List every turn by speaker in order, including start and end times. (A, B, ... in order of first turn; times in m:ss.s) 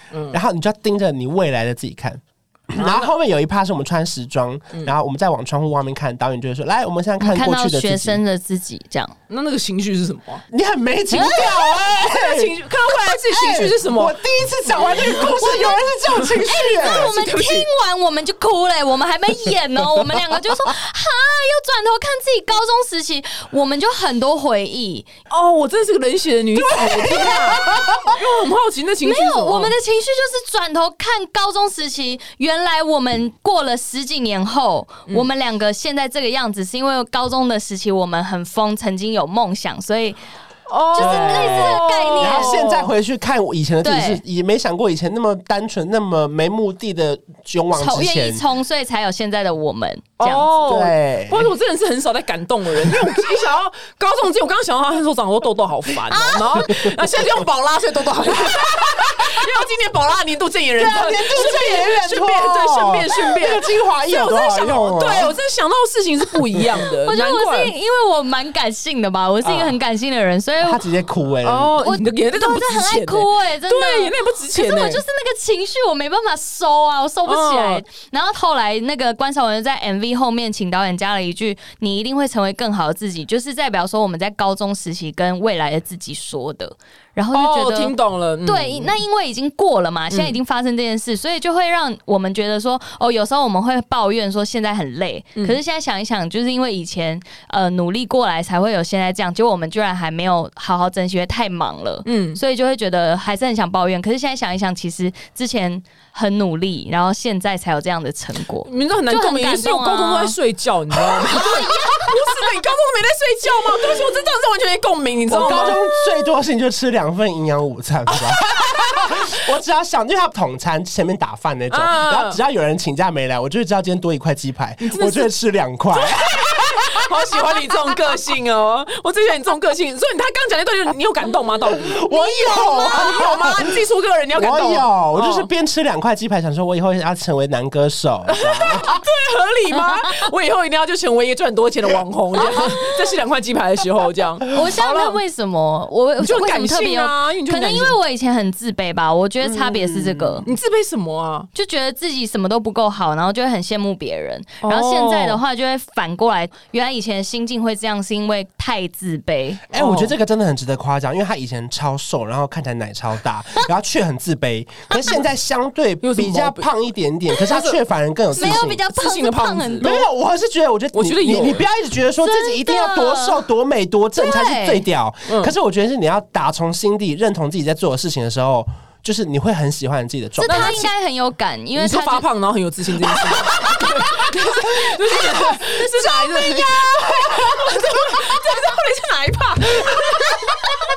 0:00.1-0:00.4 A
0:00.3-0:08.2 B
0:02.8-0:03.1 A
0:07.2-0:09.1 C
0:09.3-0:10.4 A
0:10.5-0:17.2 B
0:11.1-0:11.7 C
0:11.4-0:14.2 A
0:14.9-0:15.8 C
0:15.0-0:15.7 A
0:16.2-0:17.7 A
0:16.4-0:25.1 C
0:25.3-0:29.8 A
0:26.6-0:28.2 B
0:29.0-0:40.2 C
0:40.7-0:42.9 A
0:40.9-0:42.7 C
0:41.0-0:48.4 B
0:43.8-0:44.2 C
0:47.7-0:50.6 C
0:50.2-1:07.7 A
0:50.6-0:51.5 B
0:52.8-0:53.2 B
0:56.1-0:56.6 C
0:58.8-0:59.3 B
1:00.8-1:05.4 B
1:01.3-1:01.7 C
1:07.0-1:10.8 C
1:09.4-1:09.8 B
1:10.6-1:11.8 B
1:11.4-1:15.0 A
1:11.8-1:50.4 C
1:17.2-1:17.8 A
1:27.3-1:29.0 A
1:30.1-1:30.4 A
1:42.0-1:42.4 A
1:48.6-1:55.8 A
1:51.3-1:52.5 C
1:55.3-2:07.4 B
1:58.1-1:59.1 A
2:01.7-2:02.4 A
2:04.8-2:05.3 A
2:06.0-2:12.0 A
2:11.7-2:13.8 B
2:12.1-2:13.5 C
2:12.9-2:15.5 A
2:14.4-2:19.0 B
2:18.3-2:25.2 A
2:22.4-2:22.8 B
2:24.5-2:30.5 C
2:26.2-2:28.0 A
2:29.6-2:30.5 B
2:30.4-2:31.5 A
2:31.5-2:39.7 C
2:34.6-2:35.4 A
2:39.7-2:48.8 B
2:39.7-2:40.2 A
2:46.0-2:46.7 A
2:47.4-2:47.8 A
2:48.3-2:49.9 A
2:48.4-2:50.1 C
2:49.8-3:00.9 B
2:50.9-2:51.7 A
2:52.2-2:53.4 C
2:54.2-2:54.9 C
2:55.3-2:55.5 A
3:00.4-3:02.2 C
3:00.4-3:00.9 A
3:01.8-3:10.2 A
3:03.2-3:04.8 B
3:05.1-3:07.1 C
3:07.0-3:08.2 B
3:09.8-3:10.2 B
3:10.2-3:10.7 C